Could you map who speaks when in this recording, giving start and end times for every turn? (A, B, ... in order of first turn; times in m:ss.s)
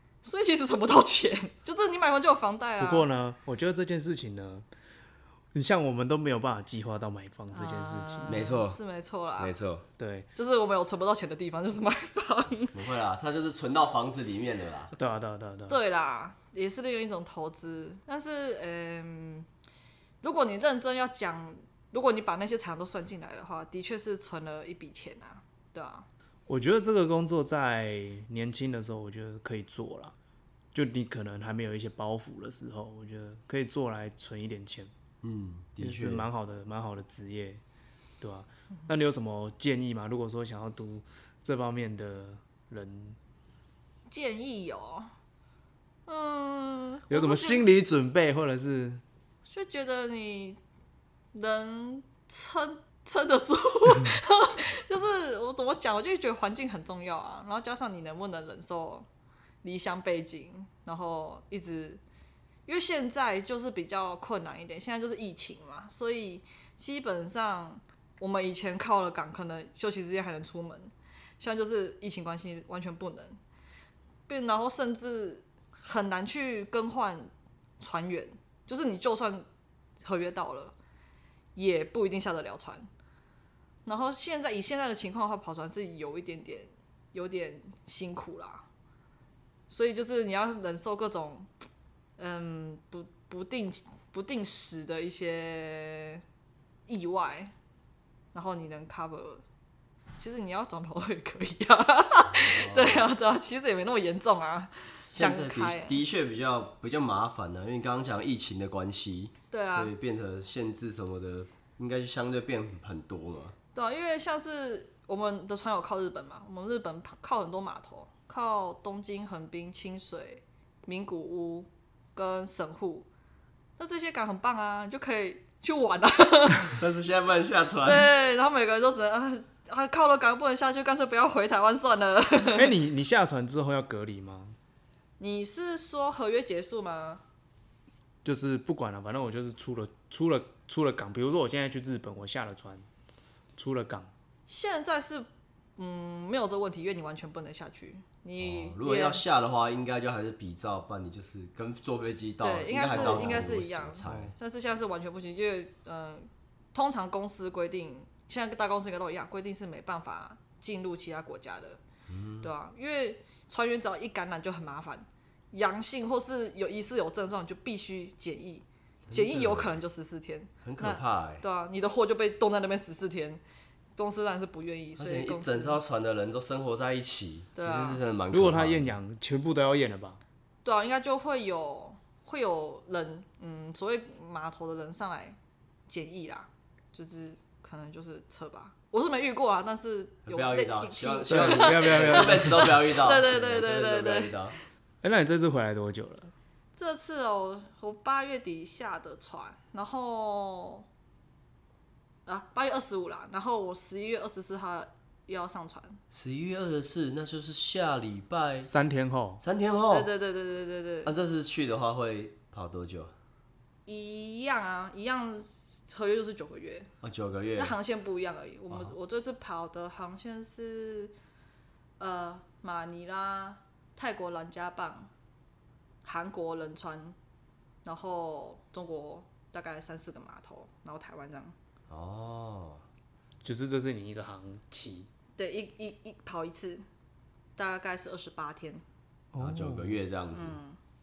0:00.2-0:03.0 A
0:02.8-0:04.7 B
0:05.5-0:08.5 B
0:07.5-0:09.5 A
0:08.3-0:08.8 C
0:09.4-0:09.8 C
0:10.0-0:10.3 B
0:10.4-0:12.7 A
0:12.7-0:14.9 C
0:14.9-0:15.8 B
0:15.7-0:19.5 A
0:20.2-0:26.0 A
0:26.5-0:30.1 B
0:30.7-0:34.9 B
0:35.2-0:36.3 C
0:35.8-0:37.6 B
0:38.2-0:43.2 B
0:44.1-0:45.1 A
0:46.1-0:47.7 A
0:47.1-0:49.0 B
0:49.5-0:50.6 A
0:51.3-0:59.0 A
0:59.6-1:02.0 A
1:02.7-1:13.4 A
1:14.3-1:19.4 A
1:20.0-1:20.7 A
1:21.6-1:22.9 A
1:23.8-1:28.6 A
1:29.7-1:31.5 A
1:32.2-1:36.2 A
1:36.9-1:37.5 A
1:38.3-1:39.4 A
1:40.2-1:46.0 A
1:42.3-1:43.1 C
1:45.1-1:53.5 C
1:49.5-1:49.9 A
1:53.7-2:03.1 A
2:03.8-2:06.8 A
2:06.8-2:08.1 C
2:07.8-2:12.7 A
2:12.5-2:14.6 B
2:15.2-2:17.2 A
2:18.2-2:22.8 B
2:23.6-2:24.1 B
2:24.5-2:29.2 A
2:28.4-2:34.3 C
2:32.4-2:41.8 A
2:32.9-2:33.5 B
2:34.0-2:34.3 B
2:42.1-2:42.5 C
2:42.4-2:53.4 A
2:49.1-2:49.7 C
2:50.6-2:51.4 C
2:54.0-2:55.8 A
2:55.0-2:58.9 C
2:57.6-2:58.0 A
2:58.3-3:00.2 B
3:00.6-3:05.4 A
3:05.9-3:14.4 A
3:10.3-3:14.6 C
3:11.3-3:12.7 B
3:15.0-3:16.3 B
3:16.7-3:20.8 A
3:22.2-3:26.0 A
3:26.1-3:28.7 C
3:28.6-3:29.4 B
3:29.4-3:30.1 C
3:29.9-3:31.1 A
3:31.0-3:33.1 C
3:33.8-3:36.9 A
3:37.0-3:37.8 C
3:37.6-3:41.1 A
3:42.0-3:45.1 A
3:46.0-3:47.1 A
3:47.8-3:51.5 A
3:51.9-3:52.8 C
3:53.4-3:55.1 B
3:55.4-3:56.8 A
3:57.6-3:58.8 A
3:59.3-4:00.0 B
3:59.4-4:00.6 C
4:00.3-4:00.8 A